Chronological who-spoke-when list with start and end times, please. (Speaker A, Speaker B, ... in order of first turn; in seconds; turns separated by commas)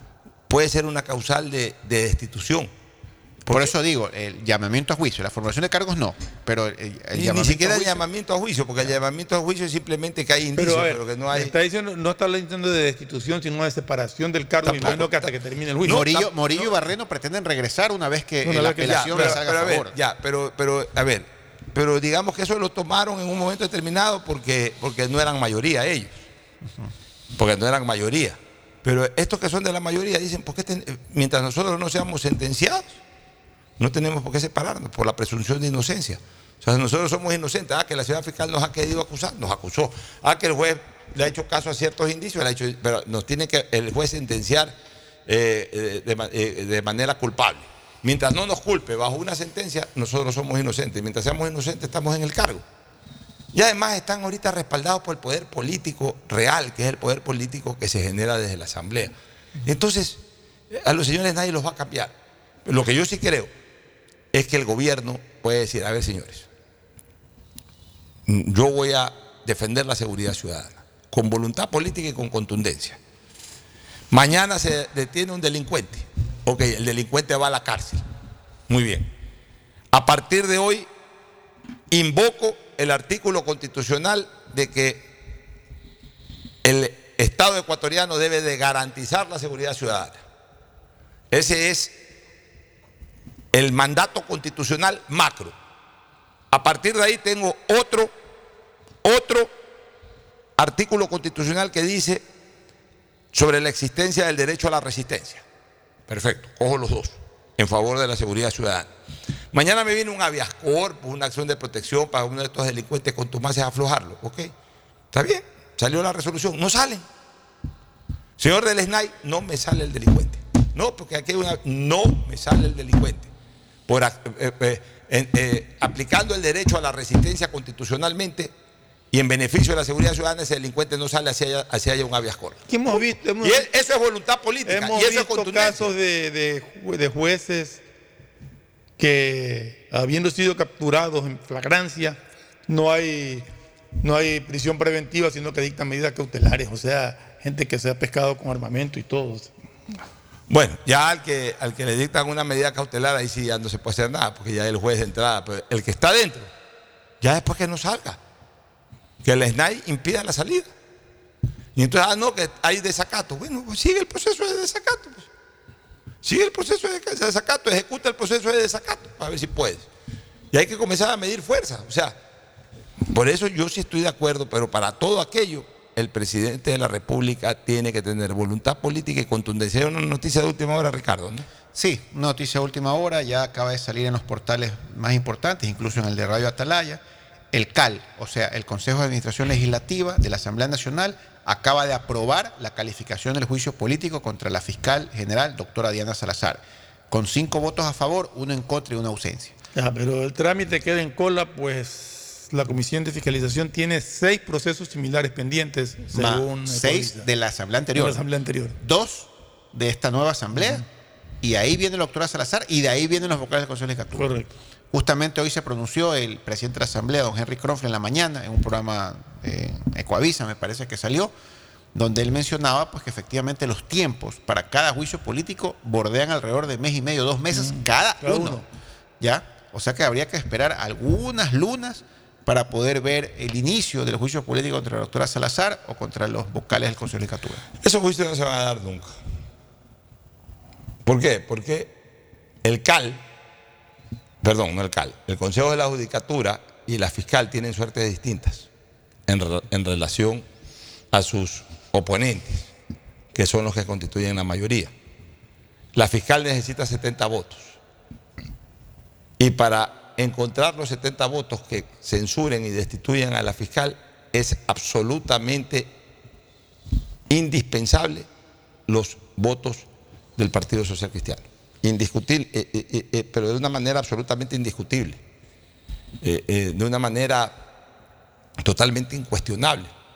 Speaker A: 0.5-2.7, Speaker A: 3.4-3.7, Speaker B: 3.5-8.0, Speaker A: 7.1-11.5, Speaker C: 10.6-16.3, Speaker A: 14.6-15.3, Speaker B: 15.8-19.9, Speaker A: 15.9-16.2, Speaker C: 18.4-19.4, Speaker A: 18.8-26.2, Speaker A: 27.4-33.0, Speaker A: 33.8-44.7, Speaker A: 45.3-52.6, Speaker A: 53.5-59.1, Speaker A: 59.6-60.2, Speaker A: 60.7-62.1, Speaker A: 62.6-63.5, Speaker A: 64.3-66.5, Speaker A: 68.3-73.0, Speaker A: 74.1-78.0, Speaker A: 78.7-79.1, Speaker A: 79.9-80.9, Speaker A: 81.9-85.1, Speaker A: 86.6-90.2, Speaker A: 91.3-91.9, Speaker A: 93.5-95.5, Speaker A: 96.5-98.1, Speaker A: 99.0-99.5, Speaker A: 100.6-102.2, Speaker A: 103.3-105.4, Speaker A: 106.1-108.9, Speaker A: 109.5-114.5, Speaker A: 115.1-117.0, Speaker A: 118.4-123.3, Speaker A: 123.9-128.5, Speaker A: 129.1-132.7, Speaker C: 132.7-133.7, Speaker A: 133.4-135.9, Speaker C: 134.6-137.8, Speaker C: 139.0-143.4, Speaker C: 144.0-149.5, Speaker A: 150.5-156.5, Speaker A: 157.2-158.2, Speaker A: 159.2-160.7, Speaker A: 161.7-165.3, Speaker A: 166.2-169.9, Speaker A: 170.5-172.2, Speaker A: 173.1-181.4, Speaker B: 181.7-199.6, Speaker C: 199.7-207.3, Speaker B: 206.1-208.2, Speaker C: 207.9-208.8, Speaker B: 208.8-210.8, Speaker C: 210.6-210.8, Speaker B: 211.4-214.3, Speaker C: 214.2-214.5, Speaker B: 214.9-221.3, Speaker B: 221.9-228.6, Speaker C: 227.5-228.7, Speaker B: 229.2-237.6, Speaker A: 237.8-239.1, Speaker A: 241.1-241.9, Speaker A: 242.6-243.2, Speaker A: 244.4-248.7, Speaker A: 249.3-250.4, Speaker A: 251.1-252.7, Speaker A: 253.3-254.9, Speaker A: 255.9-257.8, Speaker A: 259.4-265.9, Speaker A: 267.3-268.3, Speaker A: 268.9-269.8, Speaker A: 270.4-275.2, Speaker A: 276.2-277.6, Speaker A: 278.6-279.9